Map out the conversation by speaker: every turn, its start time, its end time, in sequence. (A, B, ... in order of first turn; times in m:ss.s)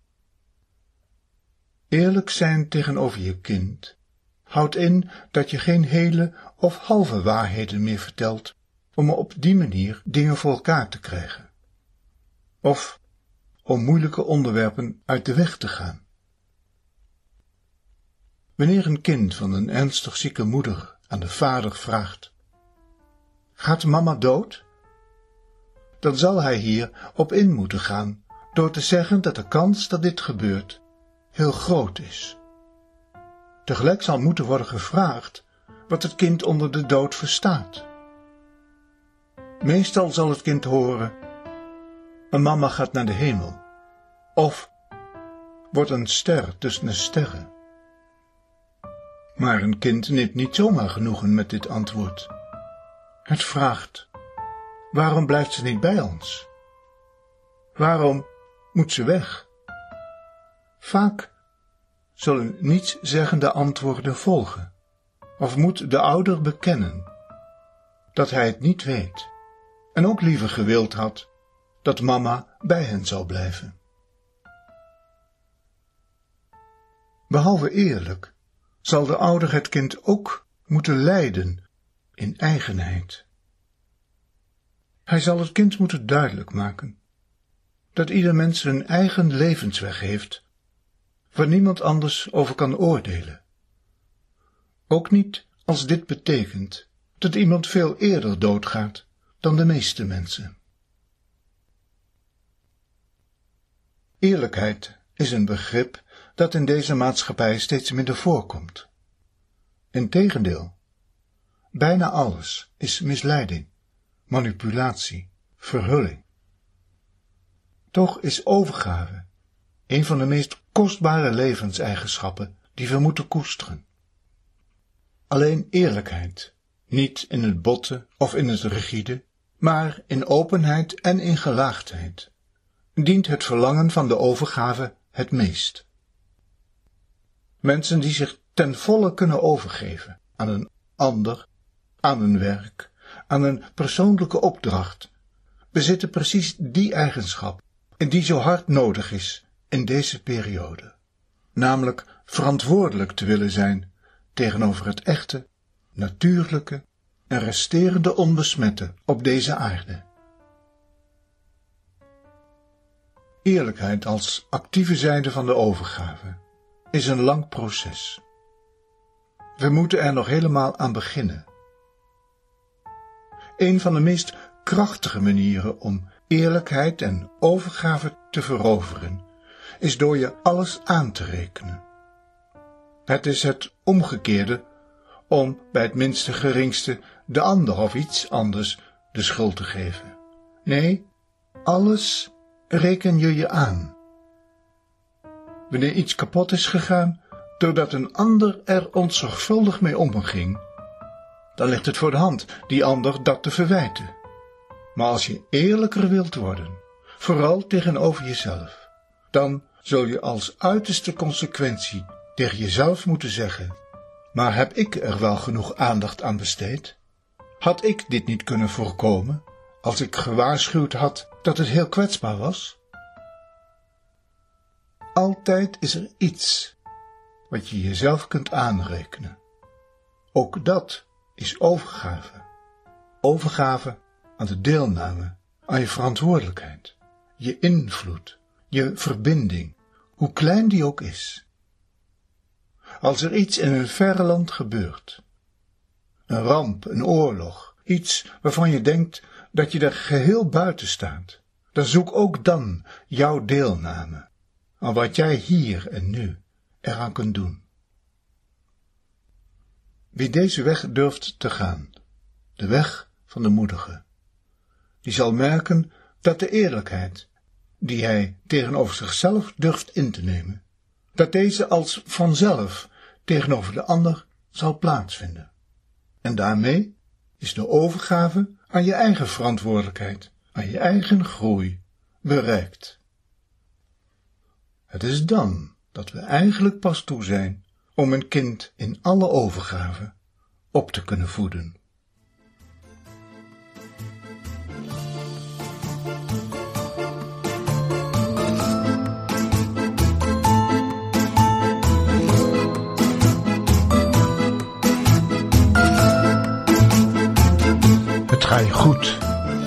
0:01.9-0:04.0 A
0:04.5-0:11.5 A
0:12.6-0:13.0 A
0:13.6-0:16.0 A
0:18.6-0:22.3 A
0:23.6-0:24.7 A
0:26.0-0:30.8 A
0:31.3-0:32.4 A
0:33.6-0:37.9 A
0:39.6-0:41.2 A
0:42.3-0:43.6 A
0:44.4-0:44.7 A
0:45.7-0:47.5 A
0:49.4-0:52.3 A
0:53.3-0:54.1 A
0:54.9-0:56.5 A
0:57.8-0:59.5 A
1:00.8-1:01.3 A
1:02.2-1:04.7 A
1:05.4-1:07.1 A
1:08.1-1:09.3 A
1:09.9-1:11.3 A
1:11.8-1:13.8 A
1:17.3-1:21.6 A
1:22.2-1:23.3 A
1:25.1-1:27.0 A
1:27.9-1:30.4 A
1:31.3-1:33.4 A
1:34.9-1:40.6 A
1:44.2-1:48.9 A
1:49.9-1:50.8 A
1:51.7-1:53.7 A
1:54.3-1:56.2 A
1:57.9-1:59.3 A
1:59.9-2:03.9 A
2:05.3-2:12.3 A
2:13.0-2:15.9 A
2:17.6-2:21.5 A
2:22.0-2:25.1 A
2:25.7-2:31.0 A
2:31.6-2:40.1 A
2:43.4-2:46.4 A
2:46.9-2:48.2 A
2:49.6-2:51.5 A
2:53.6-2:59.3 A
2:59.8-3:01.8 A
3:03.1-3:04.6 A
3:05.3-3:11.1 A
3:11.6-3:14.0 A
3:15.7-3:20.6 A
3:21.6-3:24.2 A
3:25.0-3:33.8 A
3:34.3-3:37.0 A
3:37.6-3:42.8 A
3:45.2-3:46.8 A
3:47.5-3:49.4 A
3:50.3-3:52.5 A
3:53.2-4:01.5 A
4:03.0-4:05.2 A
4:06.3-4:14.3 A
4:14.8-4:17.6 A
4:20.1-4:21.9 A
4:22.6-4:24.0 A
4:25.0-4:27.3 A
4:27.8-4:30.6 A
4:31.2-4:35.5 A
4:36.2-4:43.0 A
4:44.9-4:50.1 A
4:50.7-4:51.8 A
5:08.3-5:09.3 A